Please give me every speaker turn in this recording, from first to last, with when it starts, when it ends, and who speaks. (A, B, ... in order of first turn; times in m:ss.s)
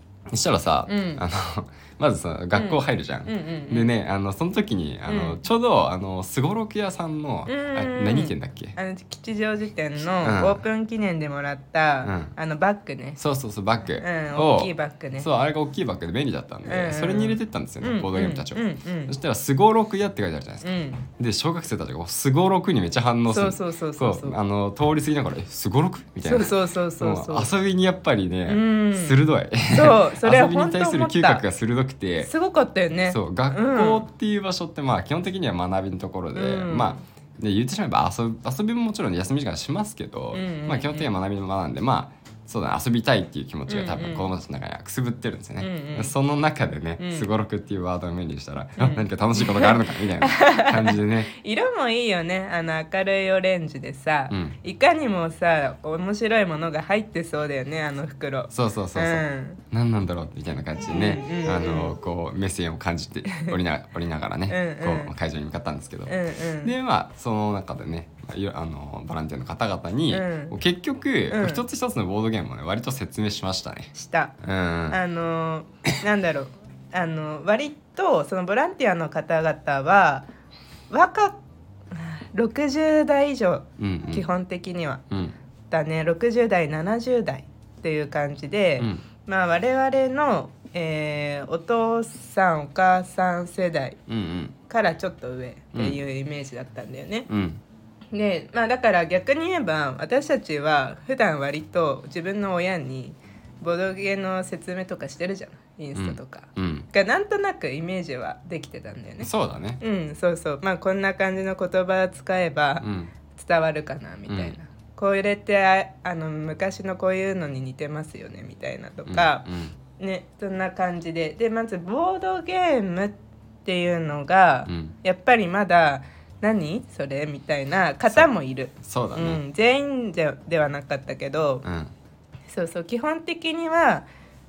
0:00.3-0:08.8 A
0:00.9-0:01.2 B
0:02.6-0:03.9 B
0:05.1-0:05.4 B
0:07.5-0:13.2 B
0:10.2-0:10.6 A
0:12.0-0:12.3 A
0:13.2-0:32.3 A
0:14.0-0:15.3 B
0:16.7-0:19.2 B
0:20.6-0:21.1 B
0:23.3-0:24.4 B
0:26.2-0:27.5 B
0:28.5-0:31.4 B
0:32.2-0:34.1 B
0:33.1-0:51.3 A
0:36.4-0:37.0 B
0:40.3-0:41.1 B
0:43.7-0:44.3 B
0:45.6-0:46.1 B
0:47.0-0:47.3 B
0:48.8-0:59.6 B
0:54.3-0:54.6 A
0:58.5-1:15.0 A
1:00.9-1:01.9 B
1:04.5-1:05.1 B
1:06.1-1:06.7 B
1:10.1-1:10.6 B
1:11.3-1:11.6 B
1:13.9-1:14.4 B
1:14.9-1:20.3 B
1:20.9-1:21.4 B
1:21.9-1:25.0 B
1:23.8-1:24.3 A
1:25.1-1:25.4 A
1:25.7-1:34.0 B
1:28.8-1:29.0 A
1:34.1-1:34.6 A
1:34.7-1:37.3 B
1:37.3-1:37.6 A
1:38.1-1:59.4 B
1:46.0-1:46.9 A
1:49.2-1:49.8 A
1:52.8-1:53.1 A
1:54.3-1:54.6 A
1:59.1-1:59.8 A
2:00.0-2:11.6 B
2:04.7-2:04.9 A
2:08.8-2:09.4 A
2:11.6-2:11.9 A
2:12.5-2:14.1 B